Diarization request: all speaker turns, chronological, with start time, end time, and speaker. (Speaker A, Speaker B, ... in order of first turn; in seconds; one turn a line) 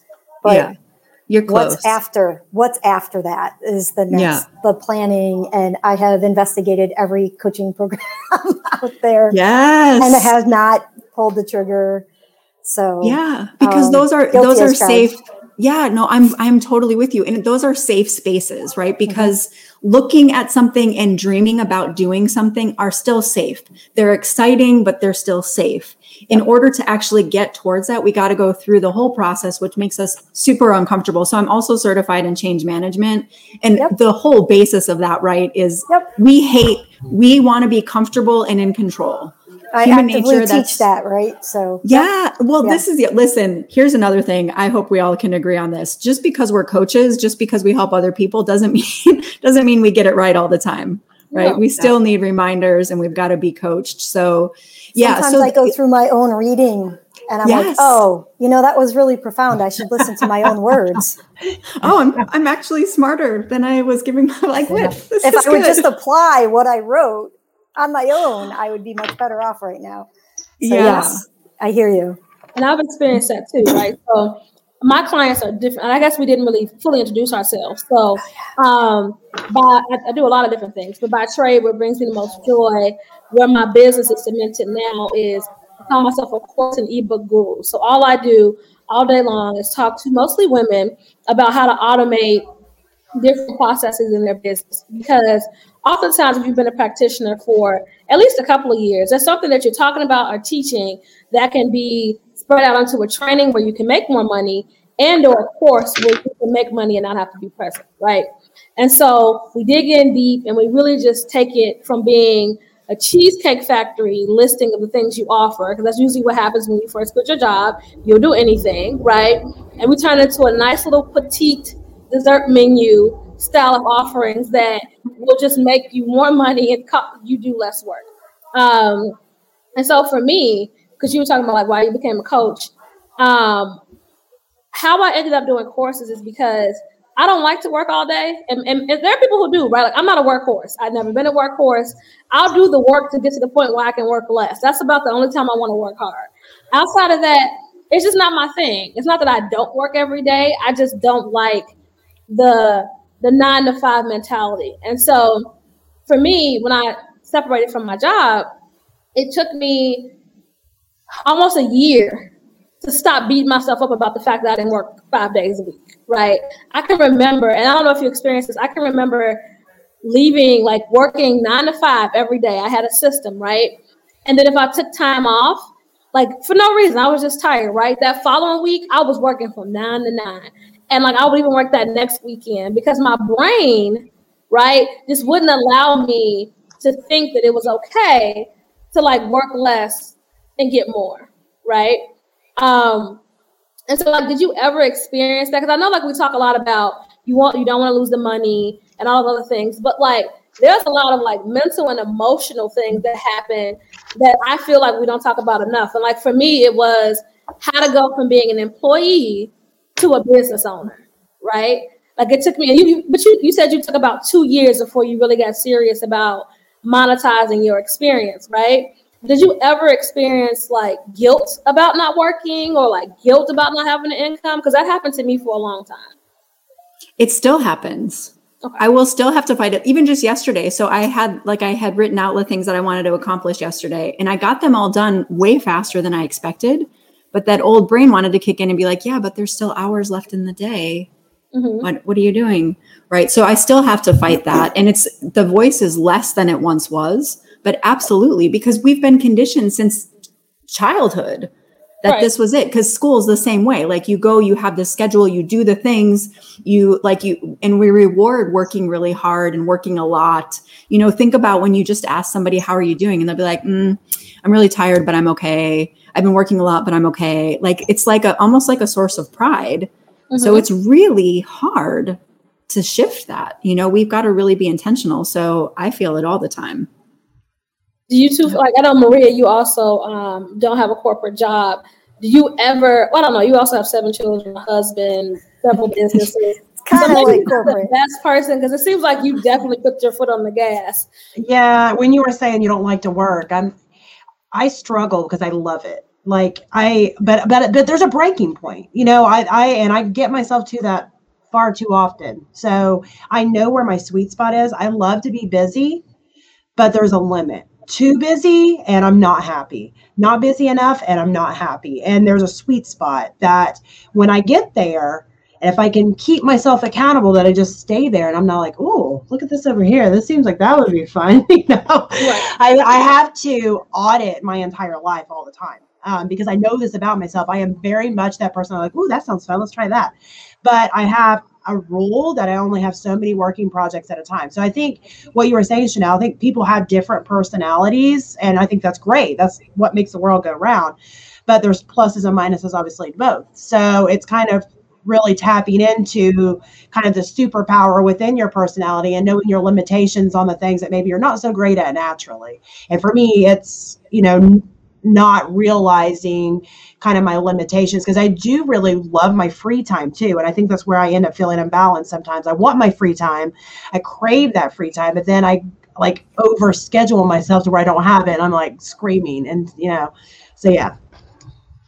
Speaker A: 0.4-0.7
Speaker B: 0.5-0.7
Speaker B: 1.3-1.9
Speaker A: 1.5-9.4
Speaker B: 4.1-4.4
Speaker B: 9.3-10.3
Speaker A: 10.0-12.1
Speaker A: 12.6-15.1
Speaker B: 13.0-40.8
Speaker A: 19.1-19.3
Speaker A: 39.7-42.1
Speaker B: 41.8-55.7
Speaker C: 51.3-51.6
Speaker A: 54.9-61.2
Speaker B: 57.4-58.0
Speaker B: 61.7-65.8
Speaker A: 64.7-70.1
Speaker B: 70.6-71.2
Speaker A: 70.7-72.2
Speaker C: 72.5-92.4
Speaker C: 93.1-129.2
Speaker C: 129.8-133.8
Speaker C: 134.7-151.7
Speaker C: 152.3-155.5
Speaker C: 156.1-158.5
Speaker C: 159.1-160.1
Speaker C: 161.2-162.3
Speaker C: 162.8-169.4
Speaker C: 170.0-192.0
Speaker C: 192.6-193.2
Speaker C: 193.9-226.1
Speaker B: 227.2-241.1
Speaker C: 241.5-241.9
Speaker B: 241.8-250.1
Speaker B: 250.7-251.5
Speaker B: 252.0-276.9
Speaker C: 270.3-270.6
Speaker C: 278.1-291.1
Speaker A: 286.8-287.9
Speaker D: 291.4-293.8
Speaker D: 294.5-306.0
Speaker D: 306.8-340.9
Speaker C: 322.2-322.5
Speaker D: 341.5-370.9